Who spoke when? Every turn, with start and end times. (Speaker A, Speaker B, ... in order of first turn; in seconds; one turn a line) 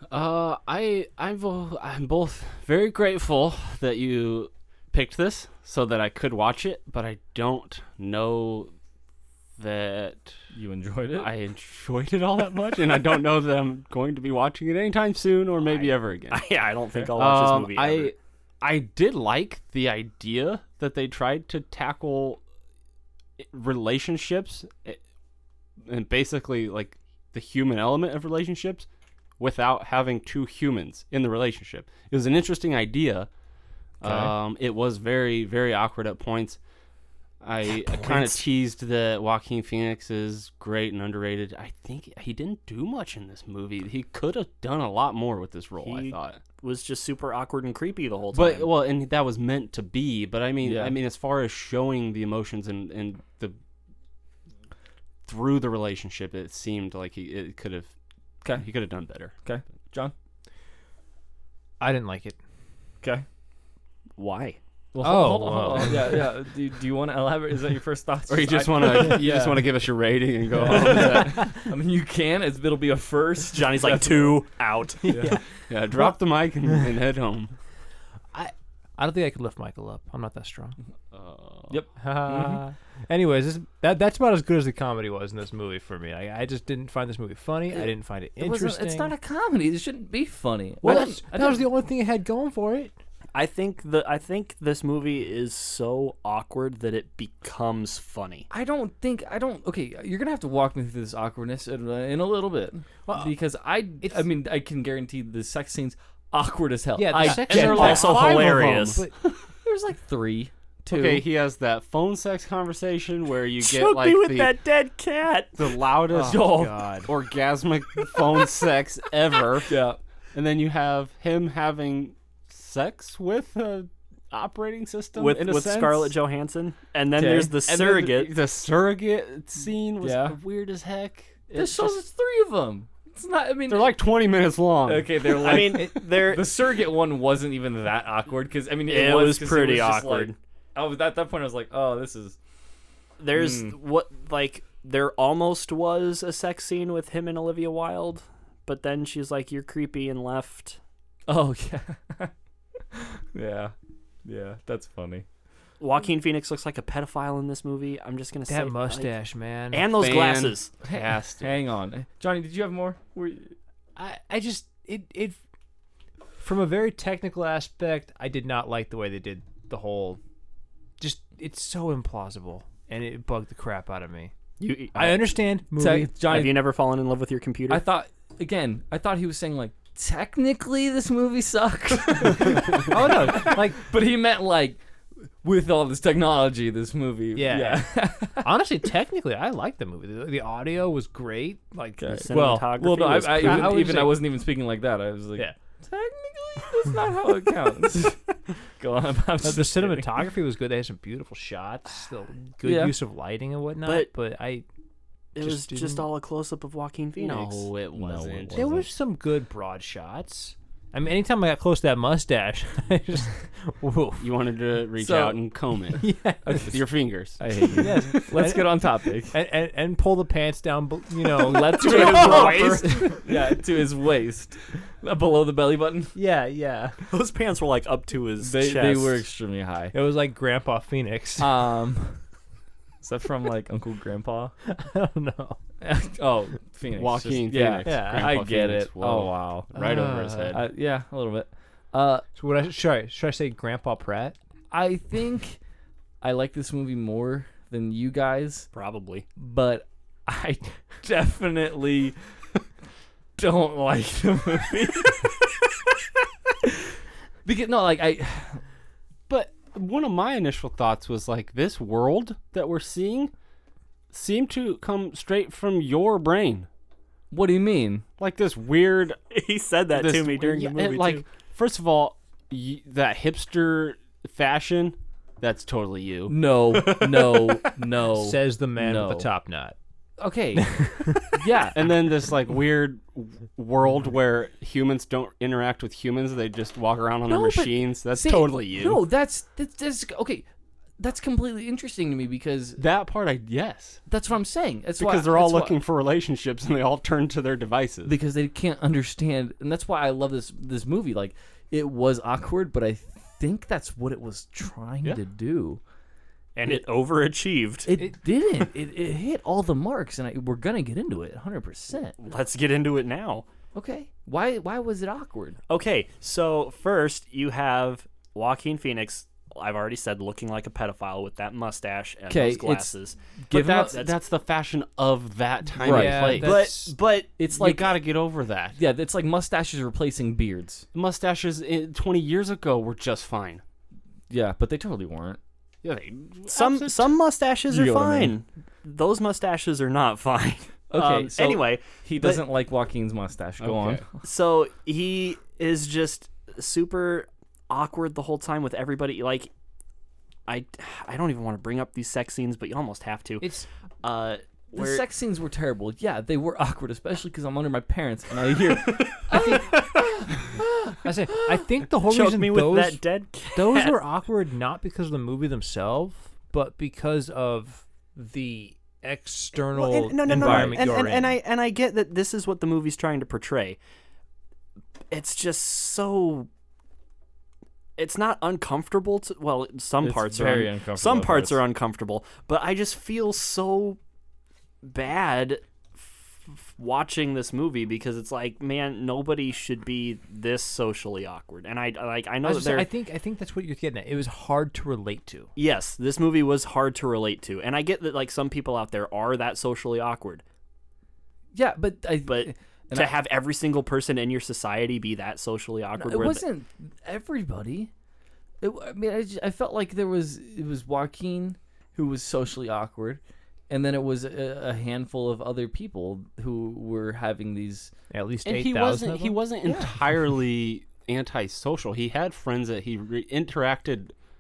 Speaker A: 0.1-8.7
Speaker A: 9.6-10.4
Speaker B: 10.5-11.3
Speaker A: 11.2-22.4
Speaker C: 15.6-18.1
Speaker A: 23.4-25.0
Speaker A: 25.9-28.9
Speaker A: 29.4-33.3
Speaker B: 34.0-34.3
Speaker A: 34.0-36.6
Speaker A: 37.4-46.4
Speaker C: 45.8-48.7
Speaker A: 48.3-53.6
Speaker B: 50.6-51.0
Speaker A: 55.3-57.9
Speaker B: 58.4-58.7
Speaker A: 58.5-59.4
Speaker B: 59.3-60.1
Speaker D: 61.8-62.4
Speaker C: 64.2-64.6
Speaker B: 64.9-69.7
Speaker D: 65.0-66.3
Speaker A: 68.3-71.5
Speaker B: 70.6-74.4
Speaker D: 70.6-71.5
Speaker C: 73.5-75.4
Speaker D: 75.0-75.4
Speaker B: 75.1-75.4
Speaker A: 75.5-77.5
Speaker D: 78.3-80.8
Speaker A: 81.1-81.8
Speaker B: 81.7-82.6
Speaker D: 82.0-89.1
Speaker B: 87.7-91.7
Speaker D: 90.8-92.9
Speaker C: 93.3-98.5
Speaker B: 98.5-108.3
Speaker D: 103.1-103.4
Speaker D: 104.0-104.3
Speaker D: 107.0-109.2
Speaker C: 107.2-109.0
Speaker A: 107.5-109.0
Speaker B: 109.6-111.2
Speaker A: 110.9-114.5
Speaker C: 113.6-115.6
Speaker A: 115.6-119.7
Speaker D: 116.1-117.1
Speaker B: 116.2-117.0
Speaker B: 119.7-120.0
Speaker A: 120.3-126.1
Speaker C: 125.2-128.3
Speaker B: 127.2-127.6
Speaker A: 127.7-132.0
Speaker B: 130.0-130.4
Speaker B: 131.5-134.0
Speaker A: 133.7-135.3
Speaker B: 134.9-142.4
Speaker C: 135.4-136.5
Speaker C: 138.9-140.4
Speaker C: 143.2-150.8
Speaker B: 143.3-143.8
Speaker B: 151.3-152.3
Speaker B: 152.9-155.3
Speaker C: 155.8-159.1
Speaker D: 158.5-159.9
Speaker C: 159.7-160.7
Speaker A: 159.9-161.5
Speaker B: 160.8-163.6
Speaker D: 164.0-165.4
Speaker D: 166.4-170.2
Speaker D: 171.0-174.3
Speaker C: 174.6-175.4
Speaker D: 174.9-176.4
Speaker B: 175.8-176.7
Speaker C: 176.2-177.8
Speaker B: 177.7-188.5
Speaker D: 182.7-183.9
Speaker D: 187.3-194.2
Speaker B: 192.0-200.3
Speaker C: 192.1-193.9
Speaker D: 199.4-204.7
Speaker B: 202.6-202.9
Speaker C: 203.8-204.1
Speaker C: 205.3-207.7
Speaker D: 205.4-206.1
Speaker A: 207.2-208.8
Speaker B: 207.9-208.9
Speaker D: 208.5-214.3
Speaker A: 214.2-216.1
Speaker B: 215.0-215.4
Speaker D: 216.0-216.7
Speaker B: 216.5-219.4
Speaker A: 216.6-217.8
Speaker D: 217.8-223.4
Speaker B: 221.4-226.2
Speaker C: 221.8-223.1
Speaker D: 226.2-227.0
Speaker C: 227.1-229.2
Speaker B: 228.4-229.9
Speaker D: 229.9-231.6
Speaker B: 231.4-232.2
Speaker B: 233.0-234.6
Speaker D: 234.7-235.6
Speaker B: 235.8-242.3
Speaker A: 237.0-240.6
Speaker D: 237.8-238.4
Speaker D: 239.7-240.6
Speaker D: 242.3-244.4
Speaker B: 244.7-245.6
Speaker B: 246.2-248.7
Speaker C: 248.7-249.3
Speaker B: 249.4-252.2
Speaker B: 253.4-255.3
Speaker B: 257.4-258.6
Speaker A: 259.3-263.3
Speaker A: 264.1-266.7
Speaker B: 267.3-268.1
Speaker A: 268.2-269.2
Speaker C: 269.3-271.2
Speaker A: 269.9-276.4
Speaker B: 276.3-279.3
Speaker C: 276.8-277.5
Speaker D: 278.1-279.8
Speaker B: 280.2-281.8
Speaker D: 280.6-281.3
Speaker A: 281.8-289.0
Speaker B: 287.3-290.5
Speaker B: 291.0-292.8
Speaker A: 292.8-294.0
Speaker B: 294.1-295.8
Speaker A: 295.0-298.1
Speaker B: 298.1-305.8
Speaker C: 306.6-307.9
Speaker B: 307.9-312.2
Speaker C: 312.2-313.5
Speaker B: 313.8-315.6
Speaker C: 315.7-323.2
Speaker B: 322.3-324.0
Speaker A: 323.5-326.5
Speaker C: 323.9-324.2
Speaker B: 325.8-326.5
Speaker D: 325.8-327.0
Speaker C: 326.4-327.3
Speaker B: 327.4-327.9
Speaker A: 327.5-328.8
Speaker B: 328.8-330.9
Speaker A: 330.9-333.6
Speaker B: 334.3-335.4
Speaker A: 335.8-337.1
Speaker C: 336.5-342.4
Speaker B: 337.7-338.4
Speaker B: 340.9-344.2
Speaker A: 343.6-344.0
Speaker C: 344.2-349.5
Speaker C: 350.5-353.5
Speaker D: 353.4-353.7
Speaker C: 354.0-355.0
Speaker B: 354.7-361.6
Speaker C: 358.9-360.0
Speaker D: 359.3-359.8
Speaker D: 361.0-363.0
Speaker C: 362.1-364.0
Speaker D: 363.6-371.4
Speaker C: 369.7-373.8
Speaker B: 370.3-370.9
Speaker C: 375.1-376.5
Speaker C: 378.0-384.0
Speaker B: 380.0-381.6
Speaker C: 384.8-392.9
Speaker D: 392.4-395.5
Speaker C: 395.6-400.4
Speaker B: 401.5-403.1
Speaker C: 402.3-406.4
Speaker B: 406.0-407.9
Speaker B: 408.6-417.9
Speaker D: 418.1-419.5
Speaker A: 418.4-424.1
Speaker B: 419.6-419.9